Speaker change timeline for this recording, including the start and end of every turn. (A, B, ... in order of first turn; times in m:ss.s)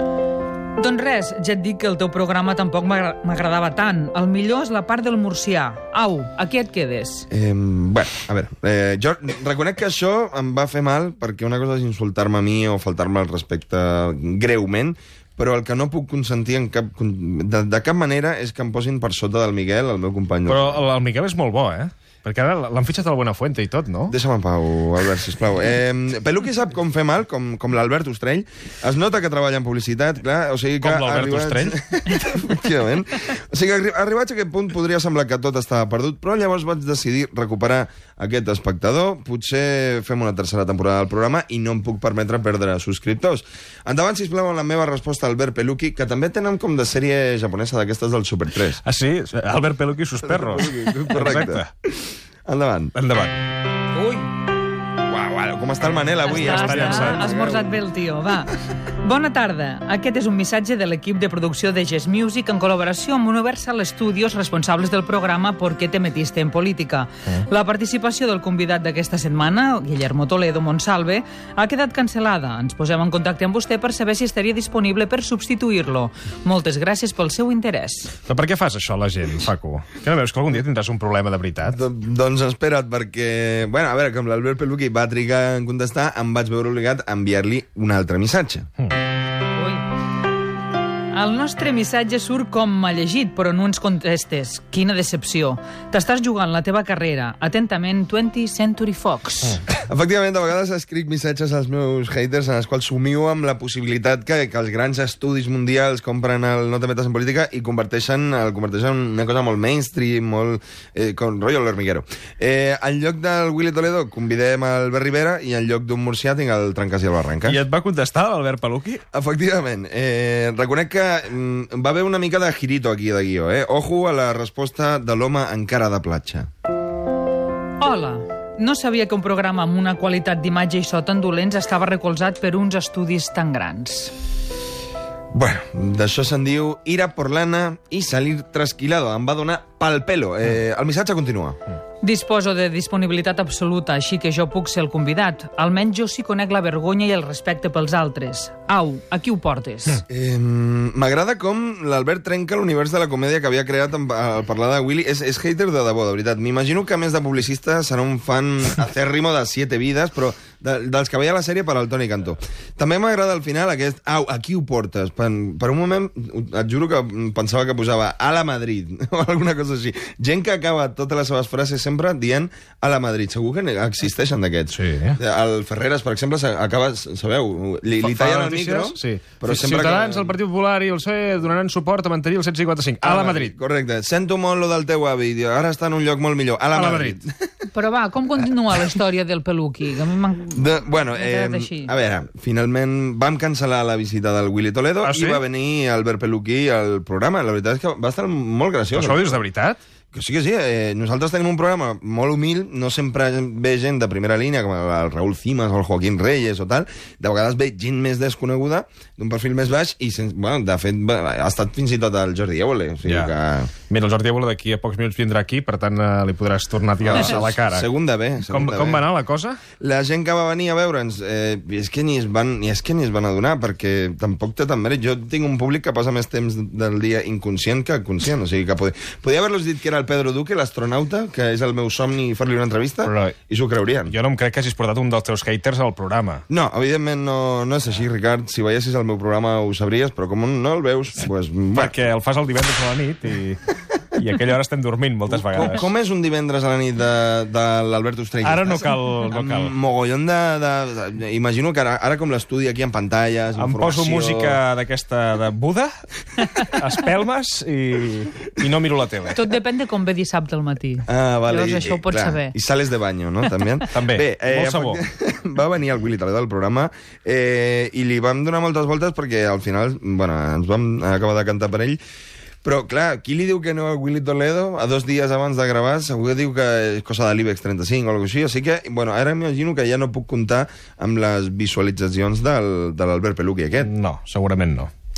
0:00.8-0:07.3 A
0:07.3-0:20.8 B
0:20.5-0:24.2 C
0:24.1-0:48.8 B
0:30.8-0:31.8 C
0:48.8-0:51.7 C
0:50.2-0:52.9 B
0:52.9-0:53.4 C
0:53.9-0:54.3 A
0:55.1-0:57.8 B
0:56.3-1:18.1 A
0:56.3-0:57.5 C
1:18.3-1:21.8 C
1:21.6-1:28.7 B
1:29.6-1:29.8 A
1:31.1-1:39.6 A
1:39.7-1:57.6 B
1:57.4-1:59.0 C
1:59.1-2:06.5 B
2:07.8-2:14.1 A
2:15.3-2:21.6 B
2:22.0-2:30.0 A
2:30.1-3:00.4 B
2:54.7-2:55.2 C
2:58.0-3:03.6 C
3:03.0-3:07.5 B
3:06.7-3:07.2 C
3:07.7-3:11.9 A
3:10.5-3:19.4 B
3:15.0-3:15.4 C
3:18.9-3:19.8 C
3:20.1-3:33.7 B
3:33.0-3:33.3 C
3:33.9-3:37.9 C
3:37.0-3:39.1 B
3:38.4-3:39.6 C
3:39.8-3:54.1 B
3:53.0-3:53.4 C
3:54.1-3:56.4 C
3:56.5-4:02.0 B
4:01.7-4:03.6 C
4:04.1-4:05.9 C
4:05.3-4:14.6 B
4:08.4-4:09.7 C
4:13.6-4:15.9 C
4:16.5-4:19.4 C
4:19.3-4:22.5 A
4:21.1-4:32.0 B
4:23.9-4:25.0 C
4:32.6-4:43.9 B
4:43.8-4:44.9 C